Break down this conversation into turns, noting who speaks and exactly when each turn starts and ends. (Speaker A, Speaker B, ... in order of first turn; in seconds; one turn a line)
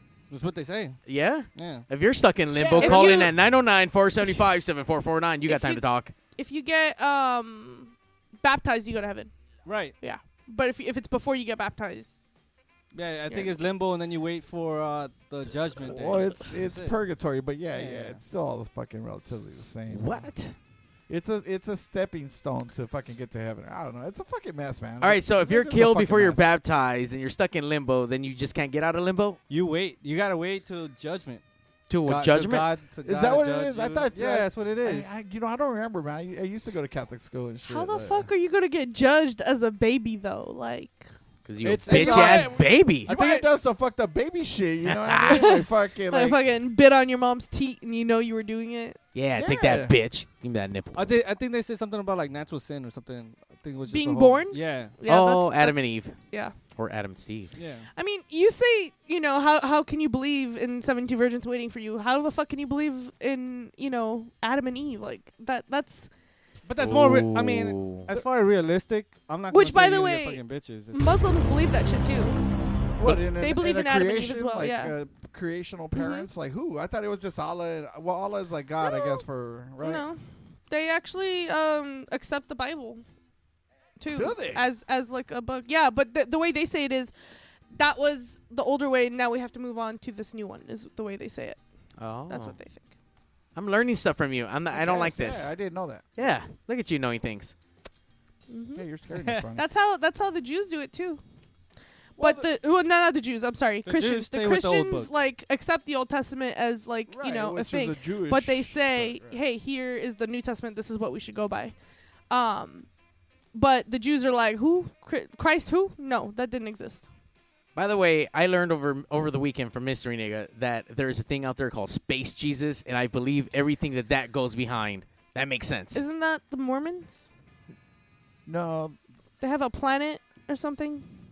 Speaker A: 0.3-1.0
Speaker B: 1.1-6.1
Speaker A: 1.5-1.9
Speaker C: 2.5-3.1
Speaker D: 2.8-3.3
Speaker D: 5.5-9.3
Speaker A: 9.6-9.9
Speaker D: 10.0-12.2
Speaker A: 12.9-16.9
Speaker C: 15.8-20.2
Speaker A: 17.7-18.2
Speaker B: 19.9-20.5
Speaker C: 21.1-26.4
Speaker B: 25.0-29.4
Speaker A: 29.5-31.4
Speaker B: 31.9-32.7
Speaker A: 32.0-35.1
Speaker C: 33.0-38.3
Speaker D: 37.7-41.1
Speaker B: 41.5-43.1
Speaker A: 41.6-43.5
Speaker C: 41.9-46.4
Speaker B: 44.9-45.4
Speaker D: 45.3-49.0
Speaker B: 49.1-51.1
Speaker C: 49.4-49.9
Speaker A: 50.9-54.9
Speaker D: 53.9-56.5
Speaker B: 55.0-57.5
Speaker A: 57.5-57.9
Speaker D: 58.0-66.1
Speaker A: 66.6-71.2
Speaker B: 66.8-68.1
Speaker D: 69.5-70.4
Speaker D: 70.9-72.4
Speaker C: 73.0-80.0
Speaker D: 73.3-74.9
Speaker D: 76.0-76.3
Speaker D: 78.8-79.2
Speaker D: 79.8-83.0
Speaker D: 84.0-87.1
Speaker C: 84.1-84.6
Speaker D: 87.7-91.6
Speaker B: 92.0-92.5
Speaker D: 92.3-92.9
Speaker B: 93.5-95.5
Speaker C: 94.7-96.0
Speaker B: 96.2-97.5
Speaker D: 98.5-98.8
Speaker C: 98.8-99.6
Speaker A: 99.2-99.5
Speaker D: 99.5-101.2
Speaker D: 102.2-111.8
Speaker C: 102.2-102.5
Speaker A: 103.8-105.1
Speaker C: 107.1-109.4
Speaker D: 112.3-112.9
Speaker D: 113.5-117.1
Speaker B: 117.8-126.0
Speaker D: 125.9-127.3
Speaker C: 128.5-129.0
Speaker D: 129.4-131.1